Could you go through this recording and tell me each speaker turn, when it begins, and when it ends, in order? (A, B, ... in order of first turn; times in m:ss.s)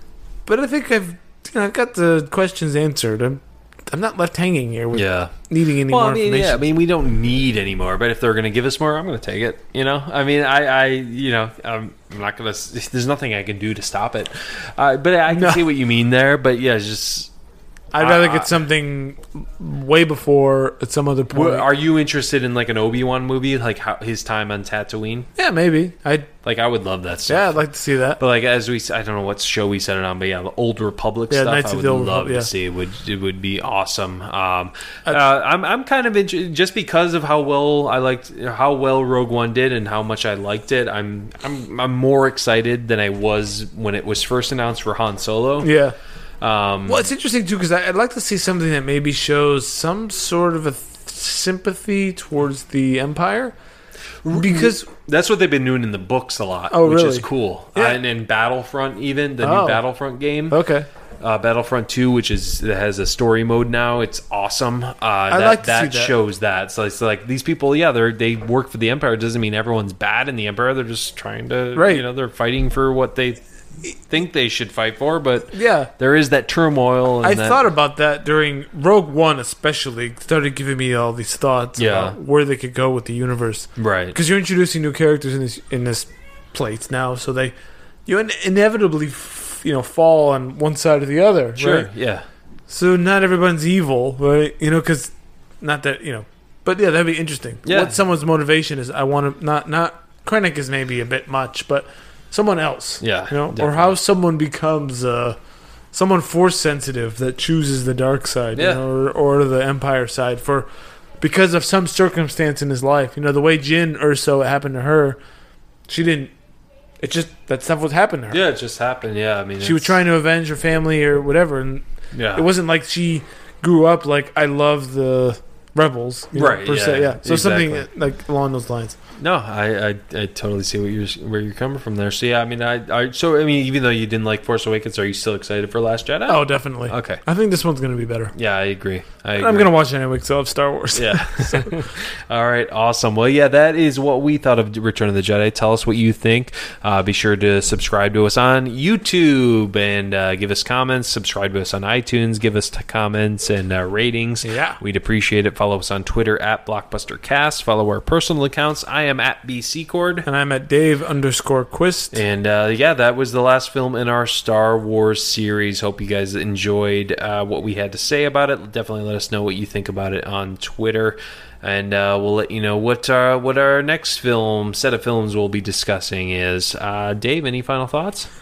0:00.4-0:06.6 A
0:04.9-0:17.3 B
0:15.3-0:15.6 A
0:17.9-0:21.6 A
0:18.0-0:18.5 B
0:21.3-0:25.3 B
0:25.4-0:26.3 A
0:26.4-0:45.7 B
0:27.3-0:28.2 A
0:31.3-0:32.5 A
0:45.6-0:45.9 A
0:46.4-0:47.1 B
0:46.9-0:53.5 A
0:54.2-1:00.6 B
0:54.3-0:54.9 A
0:56.7-0:58.0 A
0:59.4-0:59.8 A
1:00.5-1:00.9 A
1:01.2-1:13.4 B
1:05.3-1:06.1 A
1:11.7-1:12.0 A
1:14.0-1:17.6 B
1:15.5-1:15.9 A
1:17.2-1:27.5 A
1:21.8-1:22.2 B
1:23.8-1:24.2 B
1:28.0-1:31.9 A
1:31.6-1:32.2 B
1:32.7-1:45.4 A
1:37.6-1:38.0 B
1:43.0-1:43.9 B
1:45.9-1:50.7 A
1:48.5-1:48.8 B
1:51.2-1:55.2 A
1:55.9-1:56.3 A
1:57.0-1:58.4 A
1:58.3-1:59.9 B
1:59.6-2:09.0 A
2:02.1-2:02.4 B
2:06.3-2:07.8 B
2:09.2-2:17.2 B
2:16.3-2:18.3 A
2:18.3-2:19.7 B
2:19.4-2:21.9 A
2:20.9-2:40.2 B
2:34.4-2:34.8 A
2:40.2-2:42.2 A
2:42.1-2:58.3 B